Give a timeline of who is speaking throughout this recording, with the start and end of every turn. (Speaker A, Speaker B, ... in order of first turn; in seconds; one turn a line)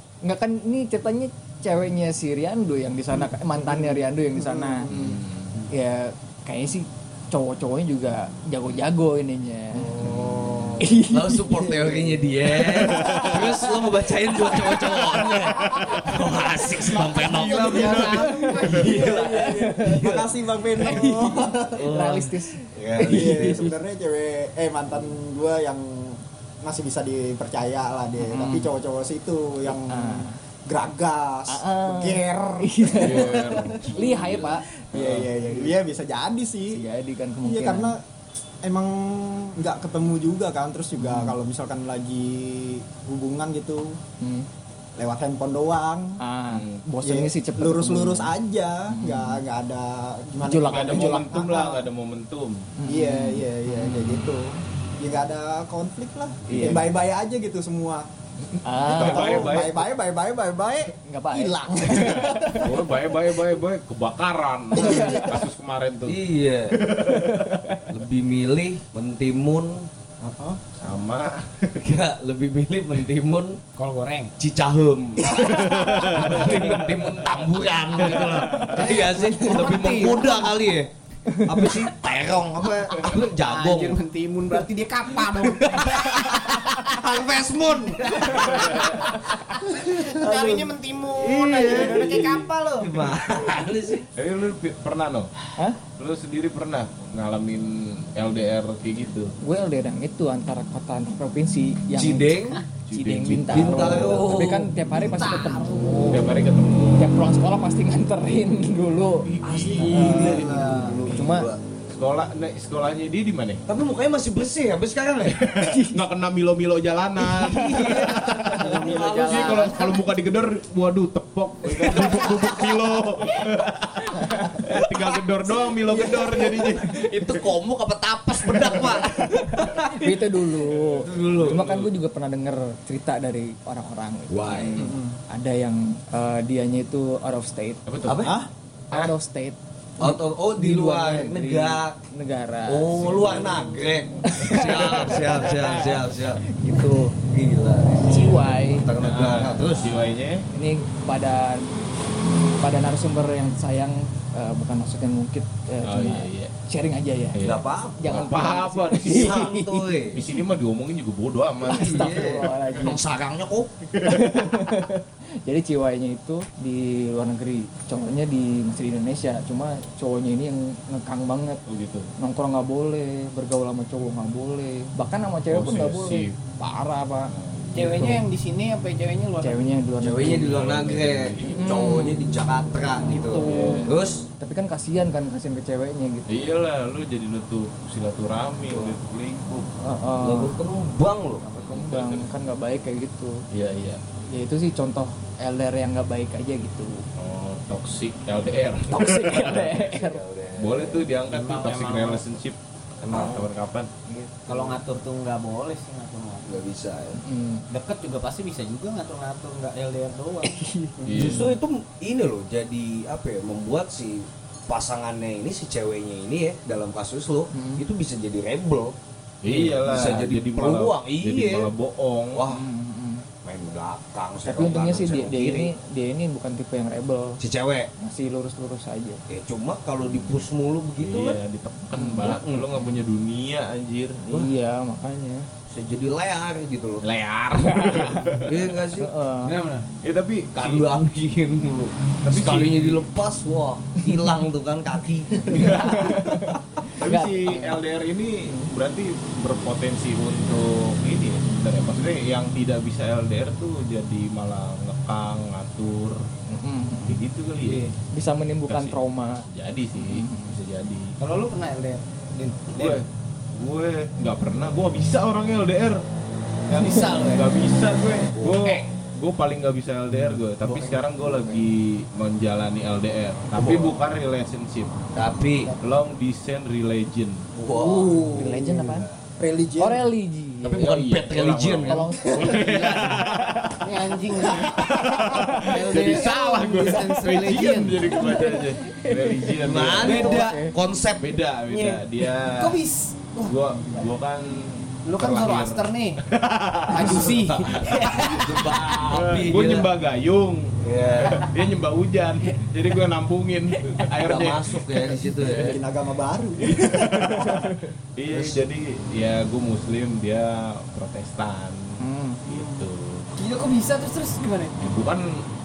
Speaker A: 0.2-4.9
Speaker B: 4.4-4.9
Speaker C: 4.9-5.7
Speaker A: 5.7-9.9
Speaker D: 9.9-23.8
Speaker C: 10.0-10.7
Speaker A: 10.8-13.7
Speaker C: 12.8-13.5
Speaker A: 14.3-17.0
Speaker C: 17.1-19.0
Speaker E: 17.3-19.4
Speaker B: 17.4-18.2
Speaker A: 17.9-20.0
Speaker B: 18.9-22.0
Speaker A: 20.8-23.7
Speaker B: 23.0-33.4
Speaker A: 28.2-28.7
Speaker A: 29.9-30.4
Speaker A: 31.5-34.6
Speaker C: 33.0-33.9
Speaker D: 33.7-34.6
Speaker B: 34.9-36.8
Speaker C: 34.9-35.3
Speaker A: 36.7-38.0
Speaker B: 37.4-38.0
Speaker B: 38.6-44.0
Speaker A: 41.0-41.4
Speaker A: 44.2-44.5
Speaker B: 45.0-46.2
Speaker A: 46.2-48.4
Speaker C: 46.5-46.8
Speaker B: 47.0-51.9
Speaker A: 48.9-49.4
Speaker A: 50.4-51.2
Speaker C: 50.6-52.7
Speaker A: 52.8-54.3
Speaker B: 52.9-58.1
Speaker A: 56.5-56.9
Speaker C: 56.5-56.8
Speaker A: 58.6-59.6
Speaker C: 58.8-59.8
Speaker B: 58.8-62.8
Speaker A: 61.0-62.6
Speaker C: 62.1-67.8
Speaker A: 64.8-65.3
Speaker D: 66.1-66.8
Speaker A: 67.1-67.8
Speaker D: 67.9-69.9
Speaker C: 70.8-71.8
Speaker D: 71.8-73.6
Speaker E: 73.8-74.3
Speaker D: 74.4-84.0
Speaker C: 75.3-77.3
Speaker C: 78.0-78.9
Speaker E: 78.7-80.5
Speaker A: 81.3-81.7
Speaker E: 83.4-86.2
Speaker D: 85.3-94.1
Speaker E: 88.0-89.1
Speaker C: 88.4-89.0
Speaker E: 89.8-93.1
Speaker C: 94.2-95.3
Speaker C: 96.0-99.4
Speaker A: 99.4-106.2
Speaker D: 102.0-102.6
Speaker C: 102.9-104.3
Speaker D: 103.5-104.7
Speaker E: 104.9-106.3
Speaker C: 106.1-107.1
Speaker A: 107.0-110.5
Speaker C: 109.3-110.6
Speaker D: 109.4-111.6
Speaker E: 109.8-111.0
Speaker A: 111.0-111.5
Speaker C: 111.9-113.6
Speaker D: 113.7-115.4
Speaker C: 115.2-127.3
Speaker A: 115.5-116.0
Speaker A: 117.2-118.7
Speaker D: 117.3-119.9
Speaker E: 118.5-120.0
Speaker D: 121.7-122.6
Speaker D: 125.5-131.7
Speaker C: 128.5-129.0
Speaker A: 129.9-137.8
Speaker C: 131.0-131.9
Speaker D: 134.3-134.9
Speaker C: 134.5-134.9
Speaker B: 134.8-135.1
Speaker C: 137.9-138.4
Speaker D: 138.1-138.4
Speaker B: 138.2-138.5
Speaker A: 138.9-143.4
Speaker D: 140.0-142.0
Speaker D: 142.7-146.4
Speaker C: 143.0-143.5
Speaker A: 144.2-147.1
Speaker C: 144.5-145.5
Speaker D: 147.3-150.1
Speaker A: 148.0-148.9
Speaker C: 148.1-148.4
Speaker C: 148.9-150.4
Speaker A: 150.5-151.7
Speaker A: 152.6-157.4
Speaker C: 155.8-156.5
Speaker C: 157.3-159.5
Speaker D: 157.4-158.3
Speaker A: 158.0-160.1
Speaker D: 159.0-160.2
Speaker C: 160.1-162.5
Speaker A: 161.6-163.0
Speaker D: 161.7-163.7
Speaker C: 163.9-164.5
Speaker A: 164.0-171.6
Speaker C: 171.7-172.1
Speaker A: 172.2-178.2
Speaker C: 175.5-176.4
Speaker C: 177.3-177.7
Speaker E: 177.7-179.7
Speaker A: 179.4-180.6
Speaker D: 180.0-184.3
Speaker C: 180.2-181.7
Speaker A: 181.5-182.3
Speaker A: 183.0-186.5
Speaker C: 183.4-183.9
Speaker C: 186.3-189.7
Speaker D: 188.7-189.0
Speaker A: 189.8-190.6
Speaker D: 190.2-191.5
Speaker A: 191.4-193.4
Speaker C: 191.6-192.3
Speaker C: 193.5-194.0
Speaker A: 194.3-197.1
Speaker C: 197.2-199.9
Speaker A: 198.9-200.2
Speaker D: 199.1-201.2
Speaker C: 200.6-203.9
Speaker E: 201.3-202.3
Speaker D: 203.0-203.4
Speaker E: 204.5-206.5
Speaker D: 206.4-207.2
Speaker A: 207.2-207.7
Speaker E: 207.7-211.2
Speaker A: 210.5-211.1
Speaker C: 211.1-211.6
Speaker D: 211.1-221.7
Speaker A: 217.5-217.8
Speaker C: 219.4-222.4
Speaker D: 222.3-222.7
Speaker A: 222.5-223.2
Speaker D: 223.4-225.7
Speaker A: 224.4-227.4
Speaker D: 227.4-227.9
Speaker A: 228.0-229.2
Speaker D: 229.3-231.4
Speaker C: 230.1-230.4
Speaker C: 231.0-234.5
Speaker A: 231.9-232.4
Speaker D: 232.2-232.7
Speaker A: 234.3-235.5
Speaker D: 235.7-237.0
Speaker C: 237.0-238.7
Speaker A: 237.6-238.4
Speaker D: 238.4-239.1
Speaker A: 239.0-239.6
Speaker E: 239.4-239.9
Speaker C: 240.0-240.9
Speaker D: 240.6-246.2
Speaker C: 242.2-243.1
Speaker C: 245.5-246.4
Speaker A: 245.5-247.8
Speaker C: 247.0-256.3
Speaker A: 256.5-260.5
Speaker C: 257.1-257.9
Speaker C: 258.7-259.0
Speaker C: 259.5-261.2
Speaker E: 261.2-263.0
Speaker C: 262.7-266.0
Speaker C: 266.7-275.0
Speaker E: 266.7-267.5
Speaker D: 268.3-268.7
Speaker E: 270.7-271.0
Speaker D: 273.5-274.0
Speaker D: 275.1-275.8
Speaker C: 275.8-277.5
Speaker D: 277.6-278.4
Speaker B: 277.7-280.1
Speaker A: 278.3-279.1
Speaker A: 279.8-280.9
Speaker D: 280.6-282.2
Speaker C: 280.8-290.5
Speaker A: 281.9-283.3
Speaker E: 282.3-288.4
Speaker A: 284.7-285.7
Speaker A: 288.0-290.7
Speaker D: 289.6-291.4
Speaker E: 290.0-290.7
Speaker C: 291.2-292.8
Speaker E: 291.7-294.0
Speaker C: 293.4-298.2
Speaker E: 295.0-296.2
Speaker E: 296.9-298.9
Speaker D: 296.9-299.9
Speaker C: 299.1-304.9
Speaker D: 300.8-301.5
Speaker D: 304.2-305.8
Speaker B: 305.4-307.7
Speaker C: 306.6-313.3
Speaker D: 308.3-308.6
Speaker A: 312.0-312.4
Speaker E: 312.5-312.8
Speaker E: 313.4-314.8
Speaker C: 314.8-315.5